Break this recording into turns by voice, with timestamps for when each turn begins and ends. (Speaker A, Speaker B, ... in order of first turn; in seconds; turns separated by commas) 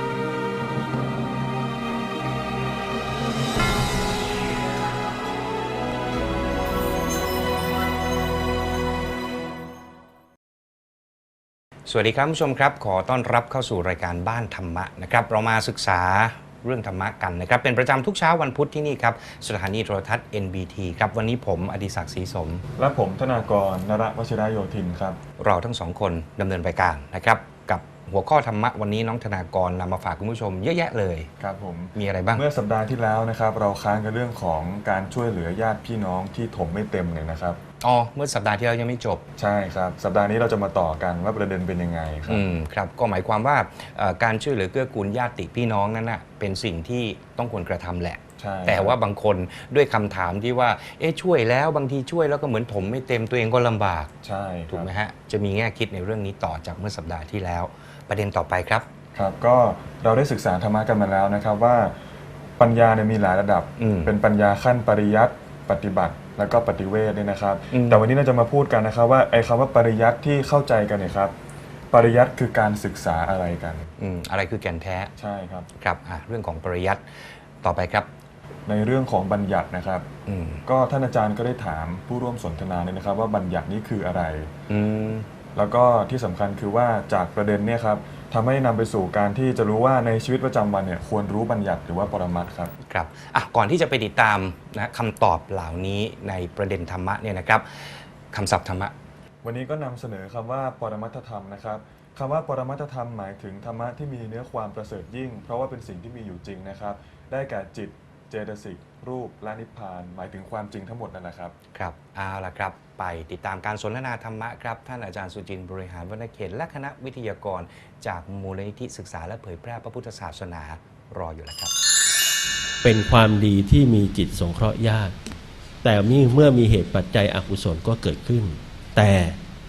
Speaker A: 11.9-22.6, Speaker B: 22.8-25.2, Speaker A: 25.4-31.3, Speaker B: 31.4-37.6, Speaker A: 32.0-32.5, Speaker A: 37.8-39.2, Speaker B: 39.4-42.4, Speaker A: 42.3-54.1, Speaker B: 48.4-49.0, Speaker B: 54.2-54.9, Speaker A: 54.7-58.9, Speaker B: 59.1-62.0, Speaker B: 62.6-71.3, Speaker A: 63.8-64.1, Speaker A: 67.7-68.0, Speaker B: 71.9-73.9, Speaker A: 74.0-75.1, Speaker B: 75.2-75.7, Speaker A: 75.8-77.0, Speaker A: 77.6-78.1, Speaker B: 78.7-80.1, Speaker A: 80.3-80.6, Speaker B: 80.7-84.5, Speaker A: 84.7-85.3, Speaker B: 85.5-92.7, Speaker A: 92.9-98.9, Speaker B: 99.4-111.5, Speaker A: 111.7-121.7, Speaker C: 122.8-125.2, Speaker C: 125.8-129.4